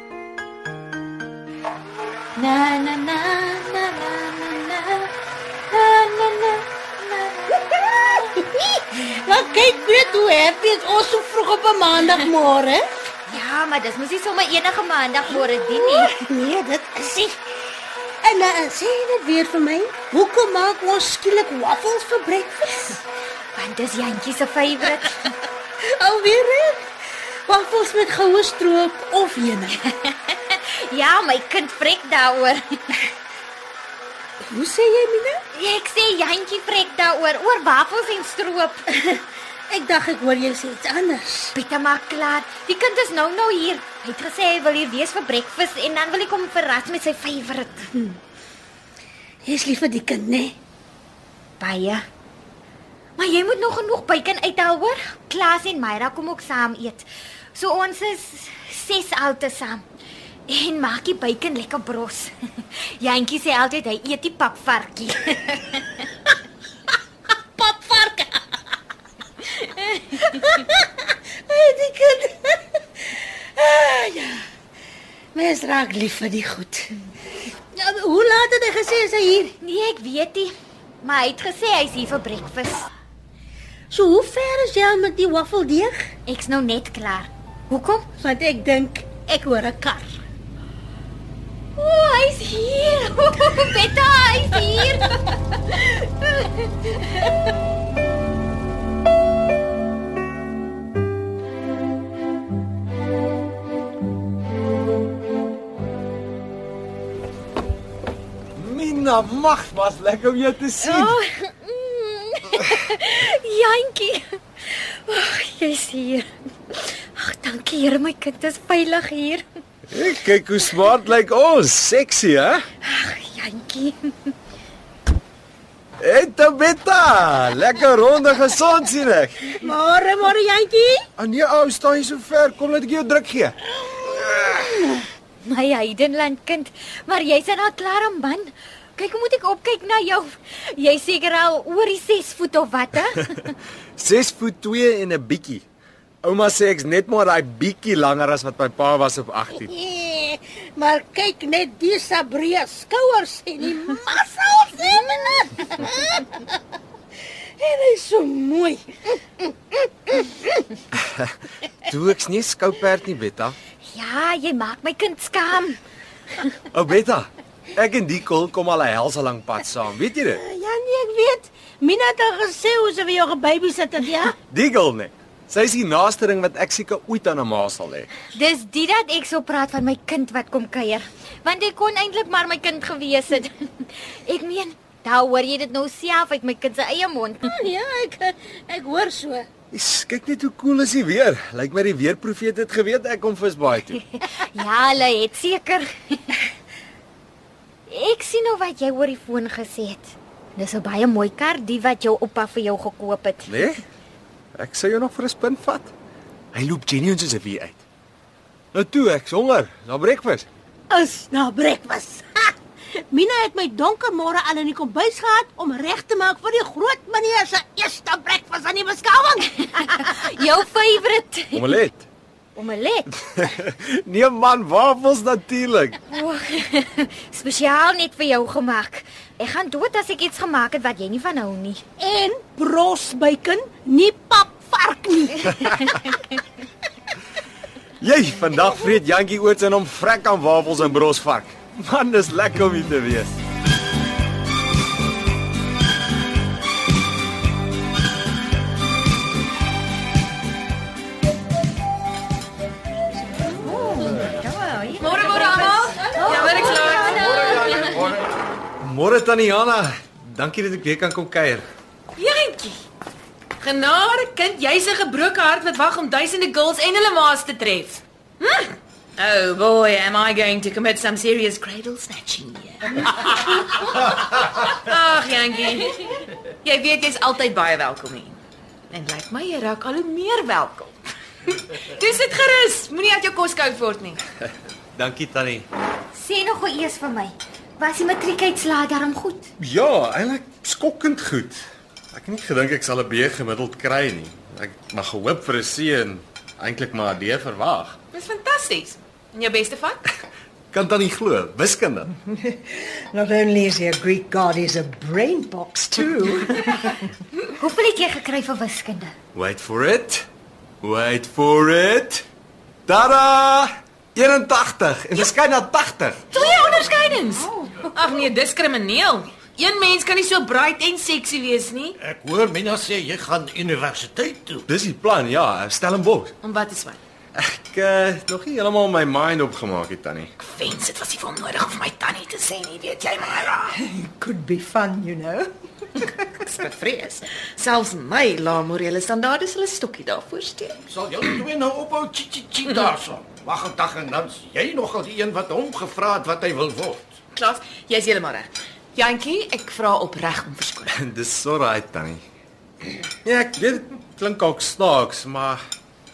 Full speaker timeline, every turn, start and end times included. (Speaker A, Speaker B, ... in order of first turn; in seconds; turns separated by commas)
Speaker A: 2.4-5.1, Speaker A: 5.7-7.8, Speaker B: 7.9-12.9, Speaker A: 13.3-16.1, Speaker B: 15.3-17.6, Speaker B: 18.2-23.0, Speaker A: 23.5-25.3, Speaker B: 25.8-29.8, Speaker A: 29.8-33.0, Speaker B: 34.4-35.4, Speaker A: 35.5-38.9, Speaker B: 38.9-41.5, Speaker A: 41.5-47.9, Speaker B: 49.4-50.5, Speaker A: 51.6-52.0, Speaker A: 53.2-59.8, Speaker A: 60.5-66.0, Speaker B: 67.6-68.7, Speaker B: 70.2-74.5, Speaker B: 75.3-79.5, Speaker A: 79.6-82.9, Speaker B: 83.9-86.1, Speaker A: 86.3-88.1, Speaker B: 88.2-90.2, Speaker A: 91.8-97.3, Speaker C: 108.5-111.2, Speaker A: 110.8-119.4, Speaker C: 119.9-122.7, Speaker A: 122.8-124.3, Speaker C: 126.0-129.5, Speaker B: 129.6-131.1, Speaker C: 131.2-133.5, Speaker A: 135.4-143.5, Speaker C: 143.9-145.6, Speaker C: 146.2-149.7, Speaker B: 149.6-156.6, Speaker B: 157.2-160.6, Speaker C: 160.9-161.3, Speaker C: 161.8-163.6, Speaker A: 163.8-165.8, Speaker C: 166.7-170.4, Speaker B: 170.3-174.3, Speaker C: 174.5-178.1, Speaker A: 178.3-187.5, Speaker B: 187.4-189.5, Speaker C: 189.7-194.0, Speaker A: 194.1-196.4, Speaker A: 197.9-203.5, Speaker C: 203.5-203.8, Speaker C: 204.5-205.9, Speaker C: 206.5-207.8, Speaker C: 208.7-210.4, Speaker B: 210.9-220.1, Speaker A: 219.8-221.7, Speaker C: 221.5-222.0, Speaker A: 222.6-223.1, Speaker C: 223.3-226.0, Speaker A: 226.1-231.8, Speaker B: 232.0-235.9, Speaker C: 238.0-243.3, Speaker A: 253.5-257.9, Speaker D: 255.0-257.9, Speaker C: 258.8-261.6, Speaker D: 262.2-262.8, Speaker D: 263.6-278.4, Speaker D: 278.9-284.2, Speaker C: 284.9-285.6, Speaker A: 286.1-289.5, Speaker C: 289.6-298.0, Speaker D: 298.1-300.1, Speaker C: 300.7-302.1, Speaker E: 302.4-307.1, Speaker A: 307.5-309.1, Speaker C: 309.3-310.2, Speaker C: 310.8-312.2, Speaker C: 312.9-316.2, Speaker D: 316.3-321.9, Speaker A: 317.3-317.9, Speaker F: 322.0-324.6, Speaker C: 324.7-326.3, Speaker D: 326.4-327.0, Speaker C: 327.4-330.3, Speaker D: 330.4-333.7, Speaker E: 333.8-336.1, Speaker D: 336.4-340.8, Speaker F: 340.9-347.1, Speaker D: 342.6-342.9, Speaker D: 347.3-350.9, Speaker C: 350.9-352.2, Speaker C: 353.2-355.6